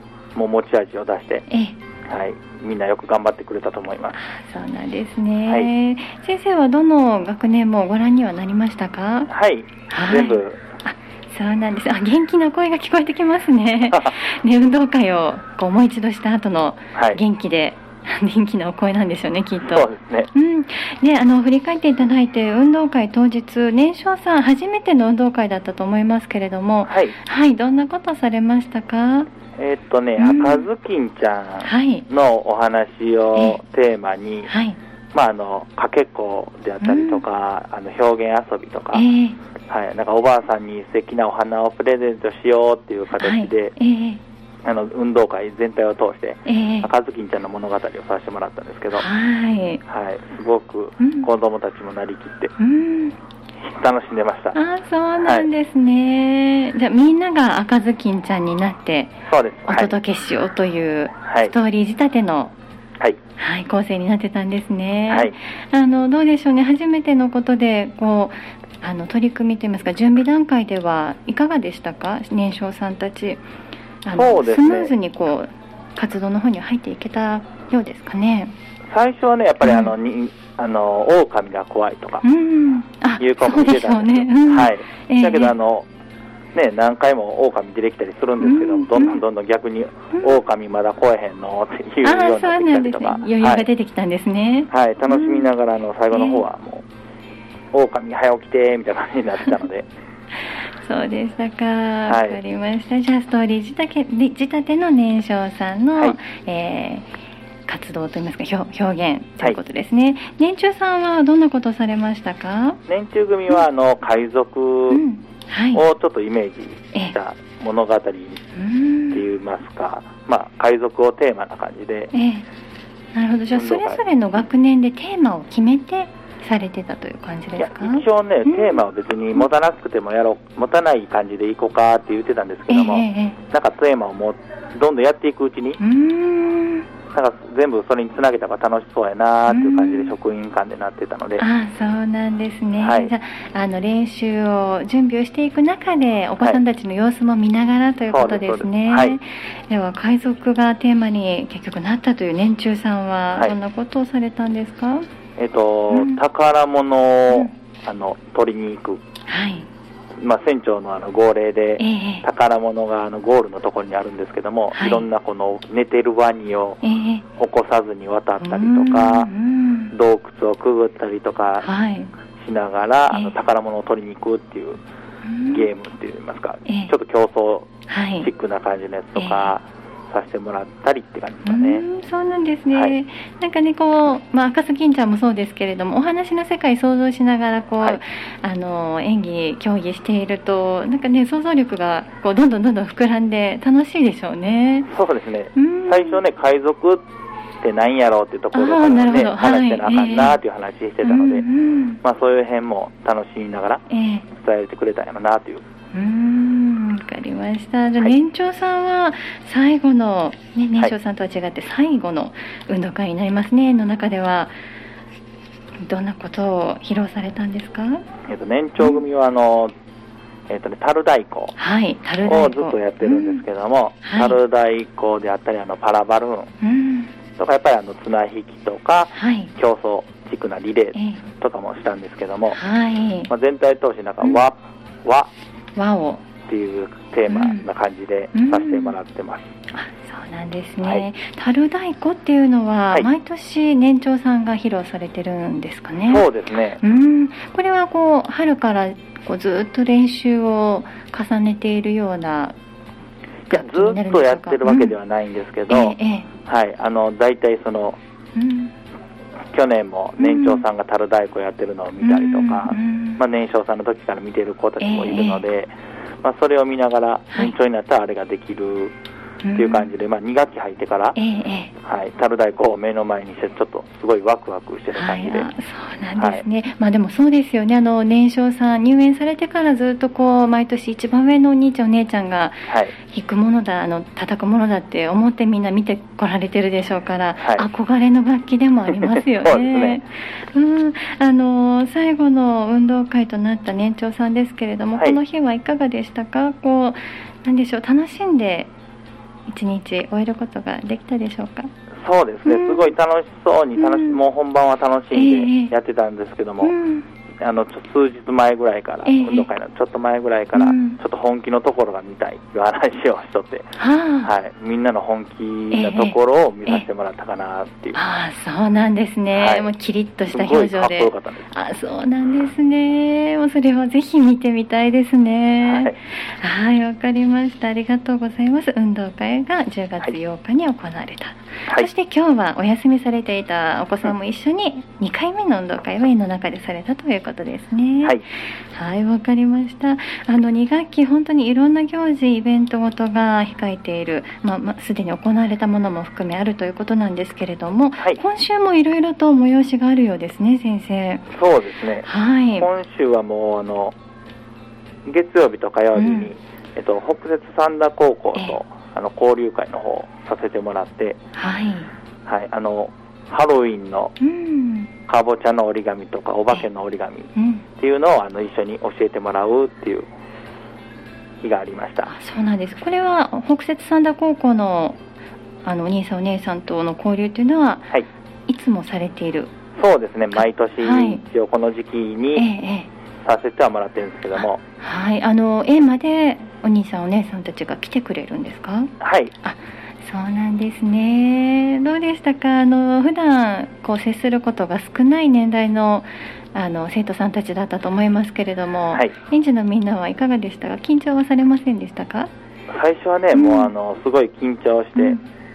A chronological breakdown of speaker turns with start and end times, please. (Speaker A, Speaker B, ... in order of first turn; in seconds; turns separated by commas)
Speaker A: 0.3-1.4, Speaker B: 1.5-1.8, Speaker A: 2.1-4.2, Speaker B: 4.1-9.3, Speaker A: 9.3-10.6, Speaker B: 9.9-29.3, Speaker A: 13.9-14.2, Speaker A: 16.9-17.2, Speaker A: 19.7-20.3, Speaker A: 26.8-27.1, Speaker A: 29.6-34.5, Speaker B: 30.2-30.7, Speaker B: 31.6-32.0, Speaker B: 34.5-34.8, Speaker A: 35.1-39.0, Speaker B: 36.8-37.2, Speaker B: 38.9-39.4, Speaker A: 39.7-43.7, Speaker B: 43.2-44.2, Speaker A: 44.6-49.1, Speaker B: 46.5-46.9, Speaker B: 48.9-49.8, Speaker A: 49.9-52.5, Speaker B: 51.0-51.3, Speaker B: 52.6-53.1, Speaker A: 53.6-54.6, Speaker B: 54.5-59.1, Speaker A: 59.3-59.9, Speaker B: 59.7-62.5, Speaker A: 61.2-61.5, Speaker B: 63.4-73.4, Speaker A: 65.1-65.3, Speaker B: 74.0-78.5, Speaker A: 74.1-74.9, Speaker A: 78.9-82.2, Speaker B: 79.6-79.9, Speaker B: 82.2-85.5, Speaker A: 83.2-85.9, Speaker A: 86.5-93.7, Speaker B: 88.4-89.2, Speaker B: 90.1-90.4, Speaker B: 92.0-95.5, Speaker A: 94.7-96.8, Speaker B: 96.1-96.4, Speaker A: 97.7-99.8, Speaker B: 100.8-107.1, Speaker A: 102.1-102.4, Speaker B: 107.7-112.8, Speaker A: 112.9-115.0, Speaker B: 114.9-115.8, Speaker A: 115.7-118.4, Speaker B: 118.5-119.2, Speaker A: 119.1-122.1, Speaker B: 122.1-122.5, Speaker B: 123.1-128.8, Speaker A: 123.5-124.0, Speaker A: 127.6-135.8, Speaker B: 132.7-133.4, Speaker B: 135.8-136.8, Speaker A: 137.1-141.4, Speaker B: 139.5-140.1, Speaker B: 141.4-155.0, Speaker A: 142.8-143.1, Speaker A: 148.1-149.2, Speaker A: 155.4-159.0, Speaker B: 155.9-156.2, Speaker B: 159.3-159.7, Speaker A: 160.2-166.8, Speaker B: 161.8-162.2, Speaker B: 164.7-165.1, Speaker B: 166.8-167.2, Speaker A: 167.4-169.3, Speaker B: 168.4-169.9, Speaker A: 169.9-171.7, Speaker B: 171.6-172.1, Speaker A: 172.4-174.8, Speaker B: 175.2-175.7, Speaker A: 175.5-177.7, Speaker B: 176.7-176.9, Speaker B: 177.9-178.3, Speaker A: 178.2-181.8, Speaker B: 179.2-179.6, Speaker B: 181.4-194.9, Speaker A: 194.9-197.0, Speaker B: 195.5-196.2, Speaker A: 197.6-201.4, Speaker B: 198.5-200.4, Speaker B: 201.0-202.0, Speaker A: 202.0-203.8, Speaker B: 203.9-204.2, Speaker A: 204.3-205.6, Speaker B: 205.9-214.5, Speaker B: 215.8-218.0, Speaker A: 218.3-219.7, Speaker A: 220.5-221.5, Speaker B: 221.6-223.4, Speaker A: 222.2-226.5, Speaker B: 224.0-224.4, Speaker B: 226.6-227.1, Speaker A: 227.3-232.6, Speaker B: 229.1-229.5, Speaker B: 230.9-231.2, Speaker B: 232.5-233.3, Speaker A: 233.3-235.3, Speaker B: 235.8-236.2, Speaker A: 236.5-239.5, Speaker B: 237.3-237.7, Speaker B: 238.3-238.9, Speaker B: 239.7-246.3, Speaker A: 246.1-246.8, Speaker B: 246.8-252.5, Speaker A: 253.5-258.0, Speaker B: 253.5-254.9, Speaker B: 255.7-256.3, Speaker B: 258.4-258.7, Speaker A: 259.5-265.7, Speaker B: 260.2-260.6, Speaker B: 262.0-263.2, Speaker B: 264.8-265.4, Speaker A: 266.2-268.9, Speaker B: 269.4-269.9, Speaker A: 269.6-271.2, Speaker B: 271.1-271.7, Speaker A: 271.8-275.5, Speaker B: 274.9-298.7, Speaker A: 276.2-276.4, Speaker A: 282.7-282.9, Speaker A: 287.4-287.7, Speaker A: 289.1-290.0, Speaker B: 299.5-301.7, Speaker A: 302.0-306.7, Speaker B: 302.4-302.9, Speaker B: 303.8-304.2, Speaker B: 305.1-305.7, Speaker B: 306.6-307.1, Speaker A: 307.4-318.0, Speaker B: 309.0-309.5, Speaker B: 310.5-311.0, Speaker B: 313.8-314.3, Speaker B: 315.7-316.1, Speaker B: 317.9-351.2, Speaker A: 319.3-319.7, Speaker A: 320.3-321.5, Speaker A: 325.6-325.9, Speaker A: 351.3-352.1, Speaker B: 352.0-352.7, Speaker A: 352.6-353.9, Speaker A: 355.1-361.2, Speaker B: 355.9-356.3, Speaker B: 361.3-361.9, Speaker A: 362.2-364.1, Speaker B: 364.2-364.9, Speaker A: 365.1-370.1, Speaker B: 367.3-367.6, Speaker A: 371.4-372.1, Speaker B: 372.1-375.0, Speaker B: 375.6-377.9, Speaker B: 378.5-379.5, Speaker A: 379.8-382.5, Speaker B: 380.3-381.2, Speaker B: 382.4-382.9, Speaker A: 383.2-384.6, Speaker B: 384.4-402.3, Speaker A: 389.0-389.3, Speaker A: 402.7-405.2, Speaker B: 403.3-403.7, Speaker B: 404.9-405.2